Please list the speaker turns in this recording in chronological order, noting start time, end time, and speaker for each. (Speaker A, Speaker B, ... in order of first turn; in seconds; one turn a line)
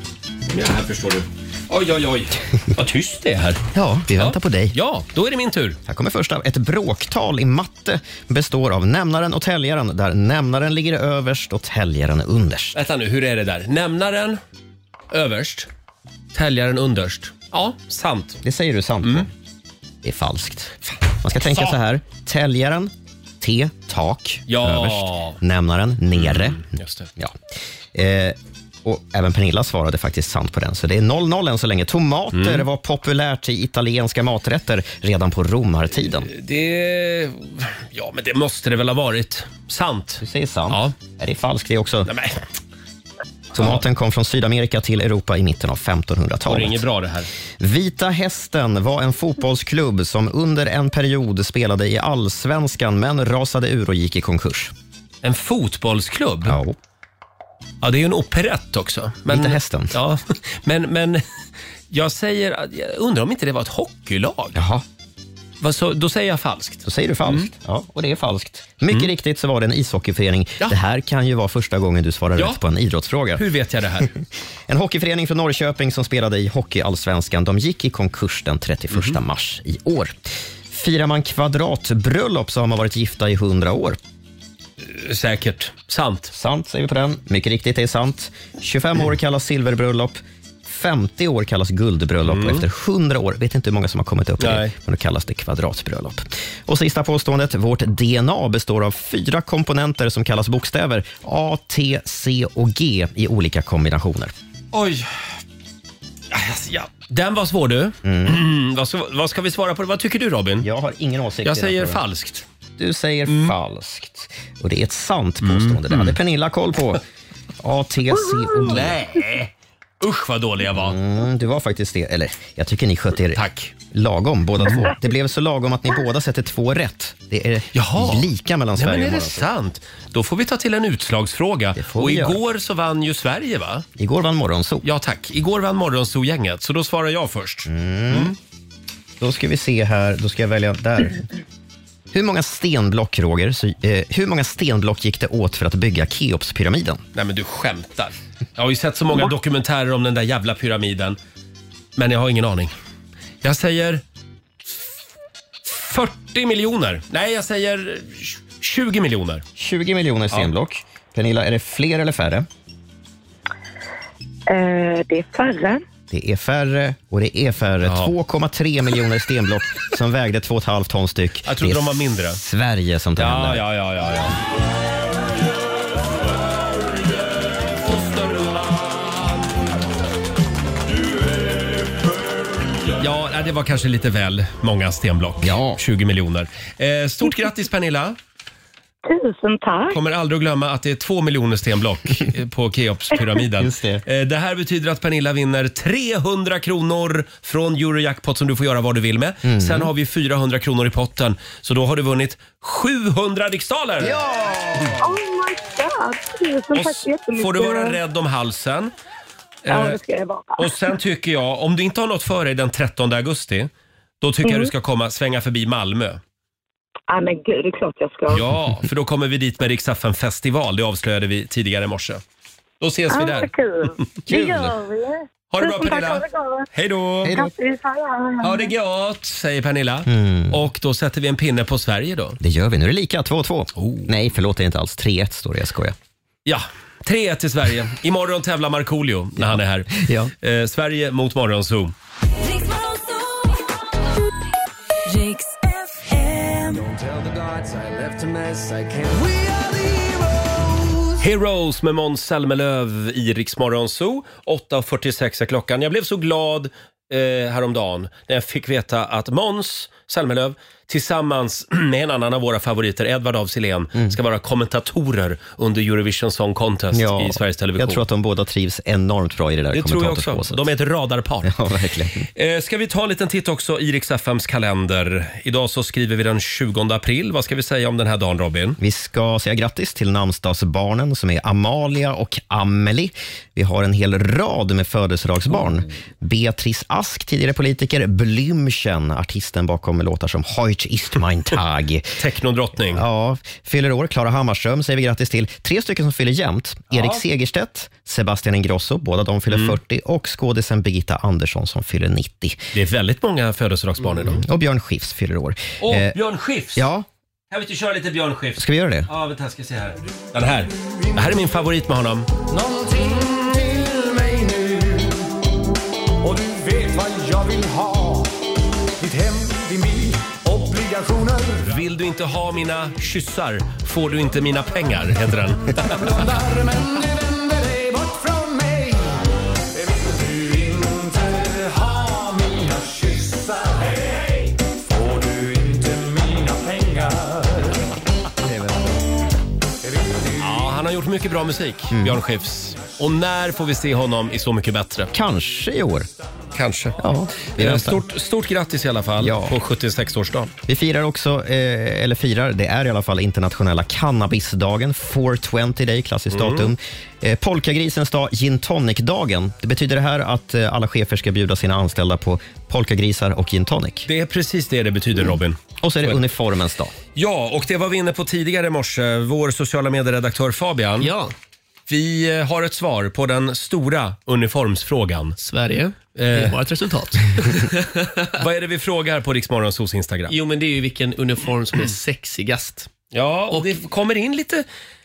Speaker A: 0.5-3.6
Speaker B: 3.7-4.8
Speaker A: 4.1-5.8
Speaker B: 5.8-12.8
Speaker A: 12.7-14.4
Speaker A: 15.1-15.7
Speaker A: 16.3-18.4
Speaker B: 18.4-19.3
Speaker B: 20.0-26.6
Speaker A: 21.4-21.8
Speaker A: 24.5-25.4
Speaker A: 26.1-27.1
Speaker B: 27.9-36.3
Speaker A: 32.3-32.6
Speaker A: 36.3-40.9
Speaker B: 40.2-42.1
Speaker A: 42.0-42.4
Speaker B: 43.5-46.8
Speaker A: 46.5-47.3
Speaker B: 47.6-54.7
Speaker A: 55.2-56.6
Speaker B: 56.5-56.8
Speaker A: 57.8-61.2
Speaker B: 59.3-60.0
Speaker A: 61.9-64.6
Speaker B: 64.5-64.8
Speaker A: 65.6-67.5
Speaker B: 66.8-73.4
Speaker A: 73.3-74.1
Speaker B: 74.7-84.0
Speaker A: 84.8-86.3
Speaker B: 86.3-104.3
Speaker A: 92.2-92.6
Speaker A: 94.4-94.7
Speaker A: 104.7-105.3
Speaker A: 106.3-110.7
Speaker B: 108.0-108.4
Speaker B: 110.6-112.0
Speaker A: 111.4-112.5
Speaker B: 112.8-117.0
Speaker A: 113.3-113.5
Speaker A: 115.4-116.2
Speaker B: 117.6-119.0
Speaker A: 118.6-119.5
Speaker A: 120.0-121.0
Speaker B: 120.7-129.5
Speaker A: 123.3-123.7
Speaker A: 127.7-133.8
Speaker B: 131.8-132.4
Speaker B: 134.0-134.8
Speaker A: 134.8-138.3
Speaker B: 137.7-138.3
Speaker B: 139.2-141.3
Speaker B: 142.1-147.0
Speaker A: 147.1-151.2
Speaker A: 152.0-152.7
Speaker A: 153.4-154.0
Speaker A: 155.6-159.4
Speaker B: 159.6-162.5
Speaker C: 164.5-165.8
Speaker B: 166.1-173.6
Speaker A: 167.8-168.1
Speaker A: 171.4-172.4
Speaker A: 173.2-174.4
Speaker A: 177.6-179.4
Speaker A: 182.9-188.2
Speaker B: 185.4-185.8
Speaker C: 189.0-190.0
Speaker A: 189.9-204.2
Speaker B: 193.6-194.0
Speaker B: 199.4-199.9
Speaker B: 204.0-205.0
Speaker C: 205.0-208.0
Speaker A: 206.7-208.9
Speaker A: 209.6-210.0
Speaker C: 209.7-210.7
Speaker A: 210.6-216.2
Speaker C: 214.4-214.7
Speaker C: 217.1-218.4
Speaker A: 218.3-222.2
Speaker A: 222.8-224.8
Speaker C: 223.1-226.7
Speaker A: 225.5-227.4
Speaker C: 227.3-228.7
Speaker A: 228.4-232.4
Speaker B: 230.1-230.6
Speaker B: 232.4-235.9
Speaker A: 233.8-234.1
Speaker A: 236.4-241.9
Speaker B: 239.5-240.3
Speaker D: 242.4-243.7
Speaker D: 245.1-246.8
Speaker E: 246.7-251.1
Speaker A: 251.2-268.0
Speaker B: 266.9-270.6
Speaker A: 269.7-271.6
Speaker B: 271.4-272.3
Speaker A: 272.3-278.8
Speaker B: 278.8-292.2
Speaker A: 292.2-293.0
Speaker B: 292.9-302.6
Speaker A: 296.9-297.2
Speaker A: 299.5-299.8
Speaker A: 302.7-304.4
Speaker B: 304.3-306.1
Speaker A: 305.8-306.8
Speaker B: 306.7-307.1
Speaker A: 307.5-312.3
Speaker B: 308.6-309.1
Speaker E: 312.5-315.2
Speaker E: 316.2-318.4
Speaker E: 319.0-321.7
Speaker A: 321.6-326.1
Speaker E: 325.7-337.8
Speaker B: 338.4-338.9
Speaker E: 339.8-340.8
Speaker A: 340.4-345.1
Speaker B: 341.9-342.2
Speaker B: 345.1-346.1
Speaker A: 346.5-347.0
Speaker B: 347.0-348.0
Speaker A: 347.6-350.5
Speaker B: 349.2-349.6
Speaker B: 350.7-364.1
Speaker A: 356.3-356.7
Speaker A: 364.1-365.6
Speaker B: 365.8-366.9
Speaker A: 367.1-371.1
Speaker F: 371.0-371.3
Speaker A: 371.9-375.4
Speaker F: 375.4-378.3
Speaker A: 376.1-376.6
Speaker A: 378.4-380.4
Speaker F: 380.3-382.9
Speaker A: 383.1-384.6
Speaker F: 383.5-383.8